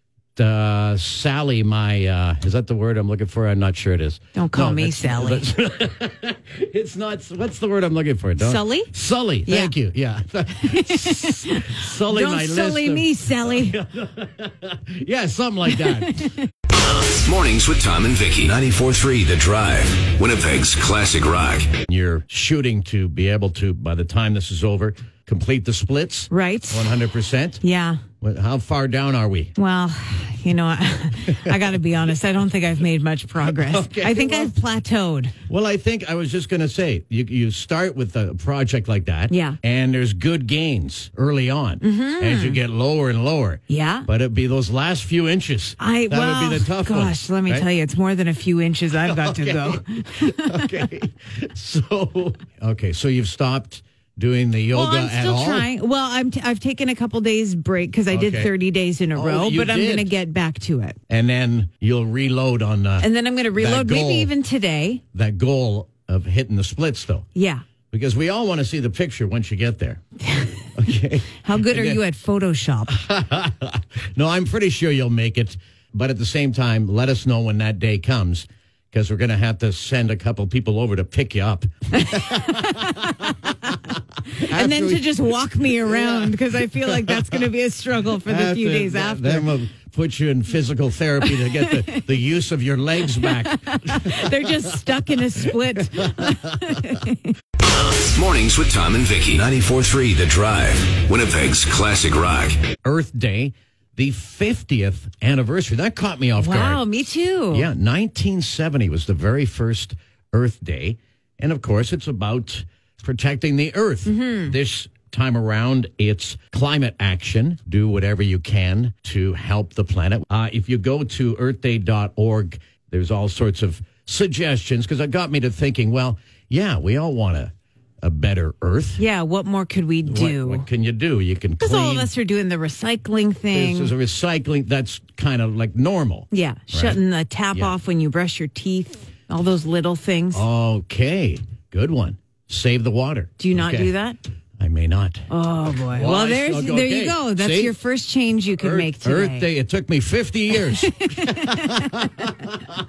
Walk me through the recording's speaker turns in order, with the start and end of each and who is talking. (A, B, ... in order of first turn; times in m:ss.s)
0:00.4-0:16.3 A
0:04.3-0:05.5 B
0:08.4-0:08.9 B
0:09.4-0:09.8 B
0:10.6-0:13.8 B
0:15.8-0:16.4 B
0:16.7-0:21.7 C
0:21.7-0:27.6 A
0:26.3-0:26.9 B
0:27.6-0:28.0 B
0:28.2-0:29.5 A
0:29.6-0:35.3 B
0:33.4-0:34.5 A
0:35.5-0:47.7 A
0:39.3-0:39.6 B
0:41.8-0:42.6 B
0:43.7-0:44.1 B
0:45.8-0:50.7 B
0:49.0-0:55.7 A
0:54.7-1:01.0 B
0:58.1-0:58.5 A
0:59.1-1:00.1 A
1:01.1-1:04.3 A
1:03.0-1:05.0 B
1:05.1-1:07.2 A
1:07.3-1:07.6 B
1:07.9-1:10.0 A
1:10.8-1:12.0 A
1:11.4-1:12.9 B
1:12.9-1:23.0 A
1:22.0-1:23.3 B
1:24.4-1:27.5 A
1:24.5-1:29.5 B
1:28.2-1:35.0 A
1:31.2-1:32.0 B
1:33.1-1:37.3 B
1:36.0-1:36.9 A
1:37.6-1:42.6 C
1:42.8-1:46.8 A
1:46.4-1:47.7 B
1:47.5-2:09.0 A
1:54.0-1:54.5 B
2:09.0-2:10.7 B
2:10.0-2:12.1 A
2:11.6-2:13.9 B
2:13.5-2:17.0 A
2:16.3-2:20.4 B
2:20.3-2:23.9 A
2:23.4-2:24.2 B
2:24.6-2:25.3 A
2:25.3-2:29.5 B
2:25.9-2:27.7 A
2:28.6-2:32.5 A
2:30.9-2:32.0 B